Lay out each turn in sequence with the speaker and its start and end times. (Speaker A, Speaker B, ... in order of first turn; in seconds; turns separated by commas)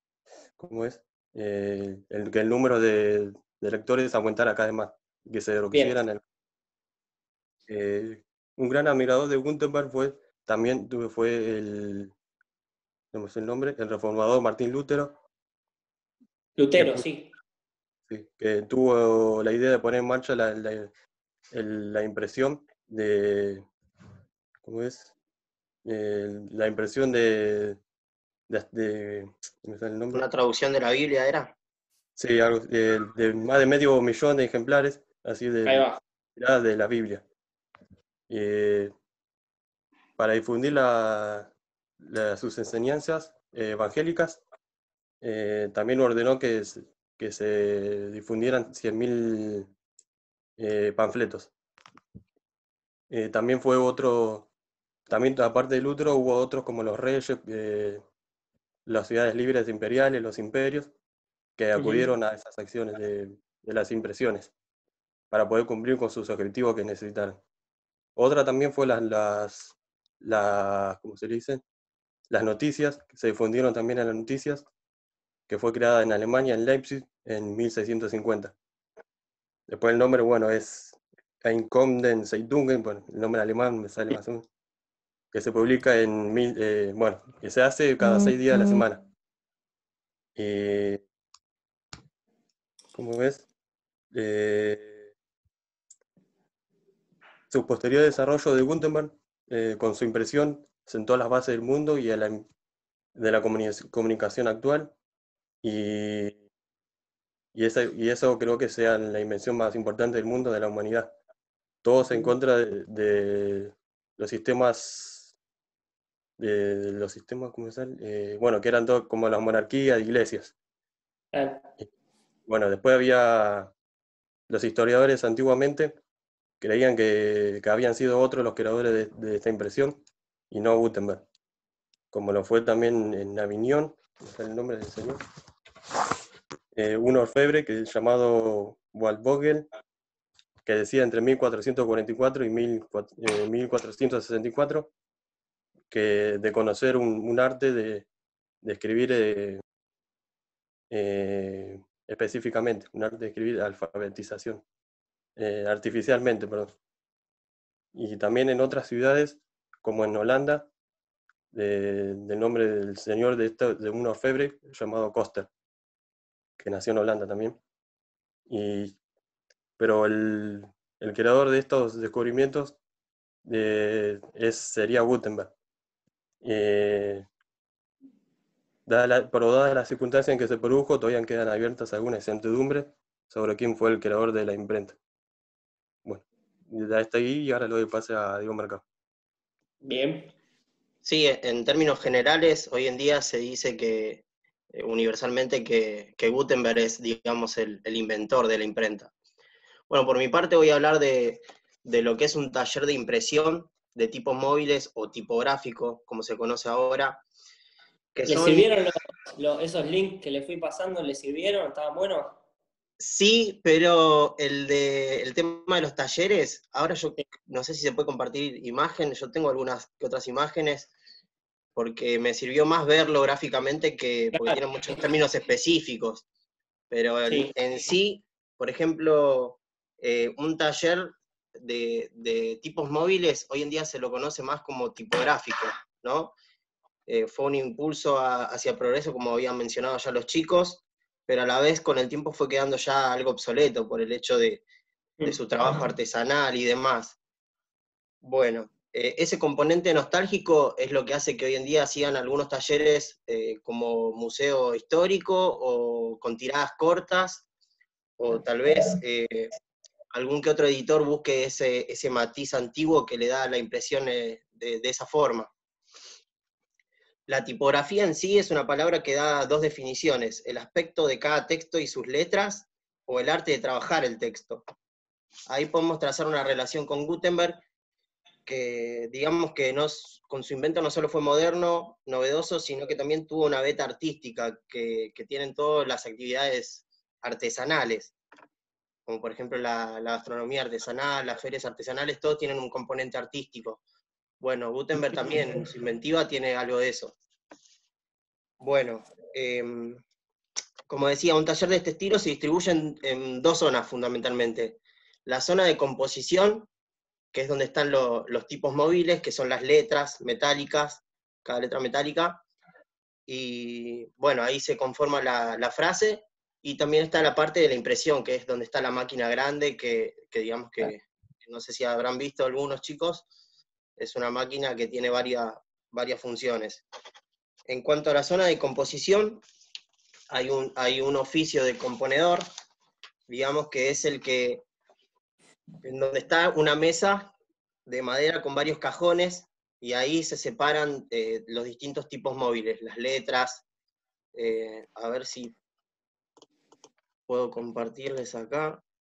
Speaker A: 0.6-6.2, Speaker A: 7.7-12.1, Speaker A: 13.1-15.2, Speaker B: 16.6-17.3, Speaker A: 16.8-17.1, Speaker A: 18.1-20.9, Speaker A: 21.5-23.7, Speaker A: 24.6-25.1, Speaker A: 25.8-27.8, Speaker A: 28.5-30.2, Speaker C: 30.1-31.5, Speaker A: 32.1-37.2, Speaker B: 35.6-36.0, Speaker A: 38.3-38.9, Speaker A: 40.2-44.4, Speaker A: 45.2-49.7, Speaker A: 50.6-51.5, Speaker A: 53.1-54.5, Speaker A: 55.1-58.0, Speaker A: 58.9-60.9, Speaker A: 61.6-64.5, Speaker B: 61.8-62.1, Speaker A: 65.3-67.4, Speaker A: 68.2-71.6, Speaker A: 72.3-74.7, Speaker A: 75.5-78.5, Speaker A: 79.7-84.5, Speaker A: 85.3-89.1, Speaker A: 90.3-91.0, Speaker A: 92.9-93.5, Speaker A: 94.1-95.1, Speaker A: 97.5-102.5, Speaker A: 103.1-104.9, Speaker A: 105.6-106.4, Speaker A: 107.5-111.1, Speaker A: 111.8-115.3, Speaker A: 116.4-120.5, Speaker B: 121.3-121.7, Speaker A: 122.5-123.7, Speaker A: 124.5-126.0, Speaker A: 126.6-131.2, Speaker A: 132.1-135.2, Speaker A: 136.7-139.7, Speaker A: 140.6-144.9, Speaker A: 145.9-148.1, Speaker A: 148.6-149.6, Speaker A: 150.9-154.6, Speaker A: 155.3-156.8, Speaker A: 157.9-160.7, Speaker A: 161.5-165.5, Speaker A: 166.6-167.6, Speaker A: 168.5-169.0, Speaker A: 169.8-172.8, Speaker A: 173.4-175.5, Speaker A: 176.4-177.3, Speaker A: 178.8-185.0, Speaker A: 186.0-188.8, Speaker B: 189.8-190.3, Speaker C: 191.0-199.1, Speaker C: 199.9-207.2, Speaker C: 208.1-208.7, Speaker B: 208.2-212.4, Speaker C: 213.0-220.9, Speaker C: 221.8-226.2, Speaker B: 224.3-225.0, Speaker C: 226.9-236.3, Speaker B: 227.3-227.5, Speaker C: 237.1-244.6, Speaker B: 245.2-245.8, Speaker C: 245.2-247.2, Speaker C: 248.2-257.4, Speaker C: 258.2-259.5, Speaker C: 260.1-265.5, Speaker C: 267.3-274.6, Speaker C: 275.5-277.6, Speaker C: 278.4-288.1, Speaker C: 289.1-293.8, Speaker C: 294.4-297.1, Speaker C: 298.6-300.0, Speaker C: 300.9-306.7, Speaker C: 307.3-312.4, Speaker C: 313.3-323.3, Speaker C: 324.0-326.8, Speaker C: 327.7-329.4, Speaker C: 330.3-332.4, Speaker C: 333.3-334.6, Speaker C: 335.8-337.3, Speaker C: 337.9-343.6, Speaker C: 344.3-345.5, Speaker C: 347.3-348.8